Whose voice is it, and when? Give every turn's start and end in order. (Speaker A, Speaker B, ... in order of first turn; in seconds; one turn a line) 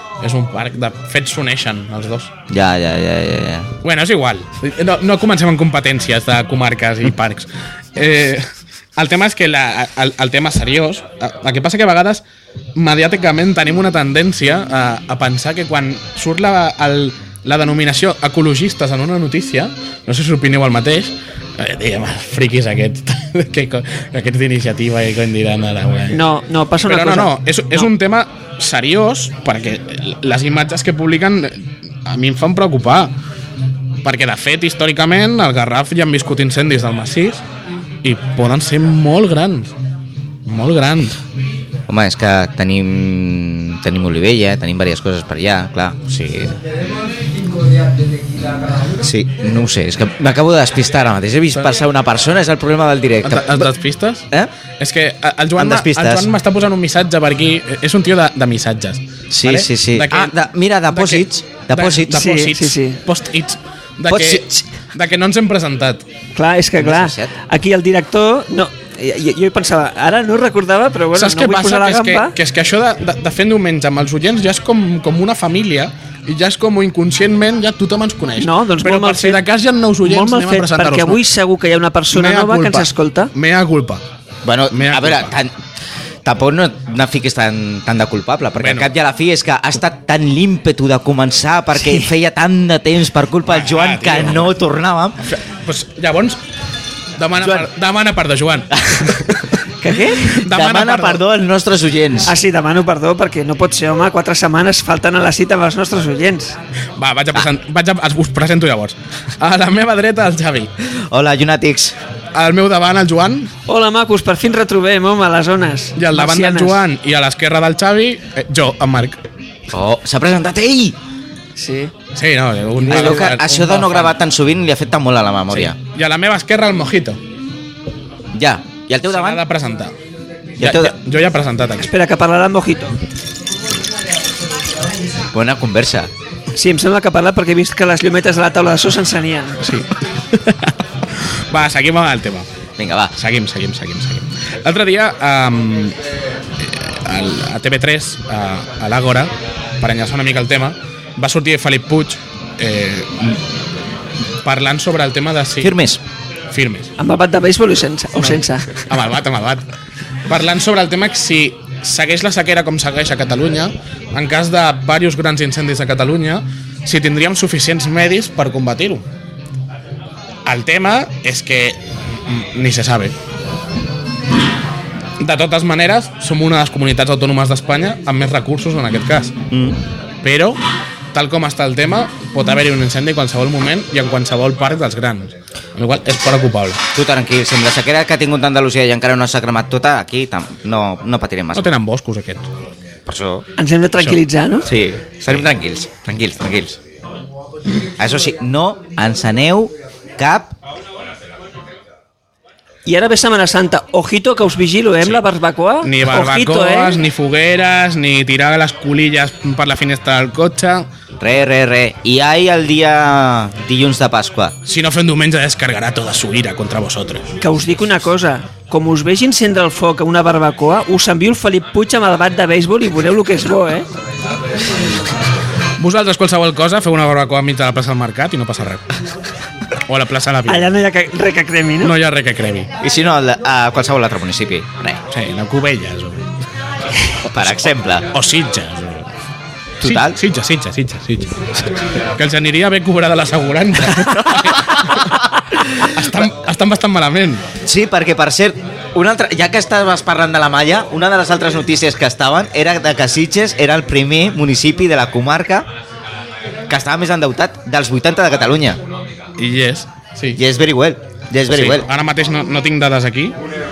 Speaker A: 0.2-2.3
Speaker B: 2.5-3.7
Speaker A: 3.8-12.2
Speaker A: 12.8-26.2
Speaker C: 26.1-27.9
Speaker A: 26.8-33.1
Speaker A: 34.0-37.4
Speaker A: 38.0-39.7
Speaker A: 40.5-41.2
Speaker B: 41.9-46.6
Speaker B: 49.0-53.7
Speaker A: 53.2-54.3
Speaker A: 54.8-60.4
Speaker B: 55.6-56.3
Speaker B: 59.3-62.3
Speaker A: 60.9-66.0
Speaker C: 62.1-63.0
Speaker B: 64.1-64.7
Speaker C: 66.4-72.3
Speaker B: 66.8-67.3
Speaker A: 71.2-81.2
Speaker C: 78.4-79.4
Speaker C: 80.0-83.3
Speaker A: 82.1-84.0
Speaker B: 84.5-85.6
Speaker A: 84.7-85.3
Speaker B: 86.2-95.2
Speaker A: 88.6-88.9
Speaker C: 91.8-92.1
Speaker A: 93.5-94.5
Speaker A: 95.3-96.4
Speaker A: 97.2-99.4
Speaker B: 97.4-97.7
Speaker B: 98.8-99.4
Speaker C: 99.8-100.4
Speaker A: 100.2-101.2
Speaker B: 100.3-102.3
Speaker C: 102.2-106.6
Speaker A: 107.0-110.7
Speaker B: 110.8-112.0
Speaker A: 112.3-113.5
Speaker C: 113.7-116.8
Speaker A: 116.0-119.2
Speaker B: 119.7-121.0
Speaker C: 121.6-121.9
Speaker A: 122.2-124.2
Speaker B: 122.8-125.8
Speaker A: 125.5-127.2
Speaker B: 128.3-129.4
Speaker A: 129.1-129.9
Speaker B: 130.6-130.9
Speaker A: 130.6-131.9
Speaker C: 131.8-133.0
Speaker B: 135.3-136.1
Speaker C: 136.5-139.6
Speaker A: 139.6-142.5
Speaker B: 142.8-143.2
Speaker A: 143.2-146.0
Speaker A: 146.6-153.4
Speaker A: 154.4-155.8
Speaker B: 155.6-156.0
Speaker A: 156.5-156.9
Speaker C: 157.0-158.8
Speaker A: 158.2-159.7
Speaker A: 160.3-169.0
Speaker A: 170.5-173.2
Speaker A: 175.2-179.3
Speaker B: 179.5-179.8
Speaker A: 180.2-180.6
Speaker A: 181.1-186.8
Speaker B: 186.9-191.6
Speaker A: 191.6-192.5
Speaker B: 193.1-193.5
Speaker C: 193.6-194.7
Speaker B: 194.7-196.8
Speaker B: 198.0-200.6
Speaker C: 202.9-207.0
Speaker A: 205.8-210.9
Speaker B: 211.2-214.6
Speaker A: 214.7-217.3
Speaker C: 217.4-223.9
Speaker A: 225.8-228.8
Speaker A: 229.9-230.7
Speaker C: 230.5-231.9
Speaker A: 231.8-232.7
Speaker B: 232.8-235.0
Speaker A: 235.1-236.3
Speaker A: 237.2-239.1
Speaker B: 237.2-238.1
Speaker B: 239.8-240.2
Speaker A: 239.8-247.5
Speaker B: 244.1-244.8
Speaker B: 247.6-255.7
Speaker B: 256.7-258.8
Speaker A: 259.4-260.4
Speaker B: 260.4-261.9
Speaker A: 261.5-263.4